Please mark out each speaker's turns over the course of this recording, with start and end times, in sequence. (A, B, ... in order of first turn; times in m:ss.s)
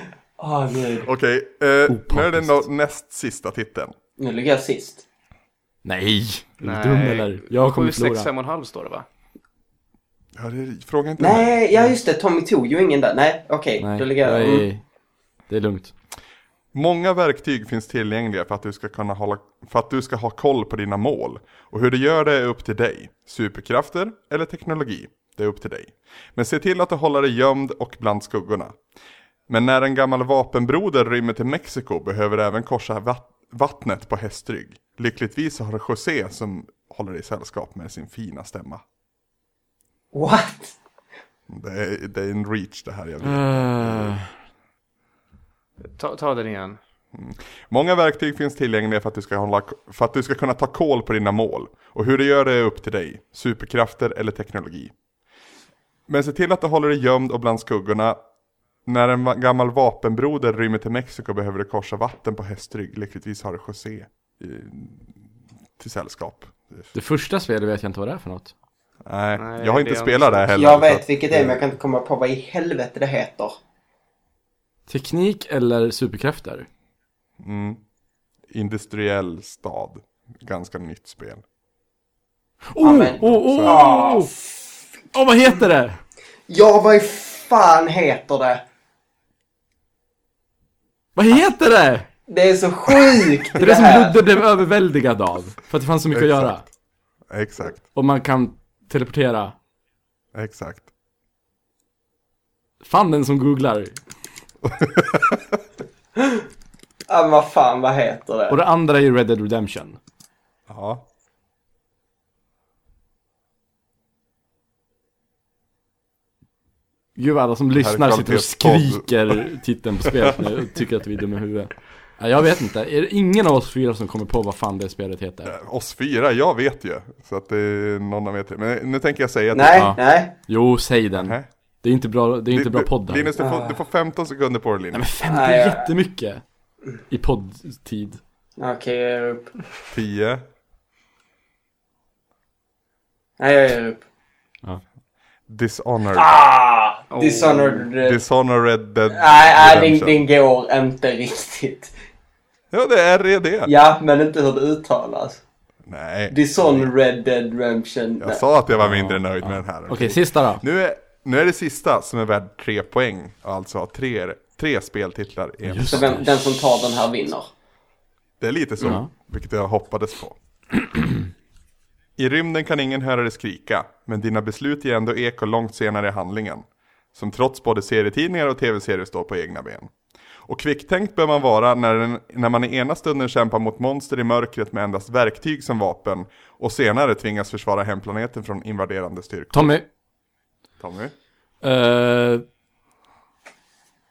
0:00.4-0:01.1 A
0:01.0-0:03.9 B
0:01.9-0:02.6 C
0:04.2-0:05.0 A
0:05.8-0:08.3 C
0:06.6-0:09.0 D
0:10.4-0:11.9 B
0:11.2-0:14.7 A
0:13.8-0:14.8 C
0:15.5-0:15.9 C
0:16.7-0:28.7 B
0:29.5-0:38.8 B
0:40.1-0:40.7 A
0:41.5-0:44.2 B
0:43.2-0:44.3 C
0:45.9-0:46.8 D
0:47.1-0:54.9 B
0:56.1-0:58.2 B
0:58.8-1:05.2 B
1:05.8-1:06.9 B
1:06.9-1:08.5 C
1:09.0-1:11.6 B
1:09.4-1:10.5 D
1:10.5-1:13.6 A
1:14.9-1:16.7 C
1:17.4-1:17.8 B
1:18.5-1:21.4 B
1:22.7-1:24.3 C
1:22.8-1:24.5 A
1:23.2-1:23.9 B
1:25.1-1:26.0 C
1:26.5-1:28.6 A
1:31.2-1:32.1 C
1:32.3-1:34.2 A
1:33.5-1:36.6 C
1:36.1-1:36.7 B
1:37.3-1:37.8 B
1:37.9-1:39.5 C
1:40.3-1:40.9 B
1:42.8-1:44.0 C
1:44.6-1:45.4 B
1:47.1-1:48.6 A
1:48.5-1:50.0 C
1:50.7-1:51.0 B
1:57.2-2:05.6 C
1:57.7-1:59.4 B
2:05.4-2:10.0 B
2:09.5-2:10.3 A
2:09.7-2:13.3 C
2:11.2-2:11.5 B
2:12.5-2:15.1 B
2:13.4-2:13.8 A
2:14.9-2:16.4 C
2:15.2-2:15.9 A
2:17.1-2:18.2 C
2:18.6-2:19.5 A
2:19.9-2:20.4 B
2:23.4-2:24.0 A
2:25.5-2:26.3 B
2:26.1-2:28.2 A
2:27.1-2:27.7 D
2:27.7-2:30.2 B
2:29.1-2:31.9 A
2:32.7-2:33.7 B
2:33.6-2:35.4 A
2:35.9-2:36.9 B
2:36.3-2:38.4 A
2:38.2-2:46.2 B
2:38.8-2:40.6 C
2:45.6-2:46.4 C
2:45.9-2:47.5 A
2:48.4-2:50.4 B
2:48.8-2:49.1 C
2:52.2-2:59.9 B
3:00.4-3:09.8 B
3:09.5-3:09.8 C
3:10.8-3:11.1 B
3:11.6-3:12.4 C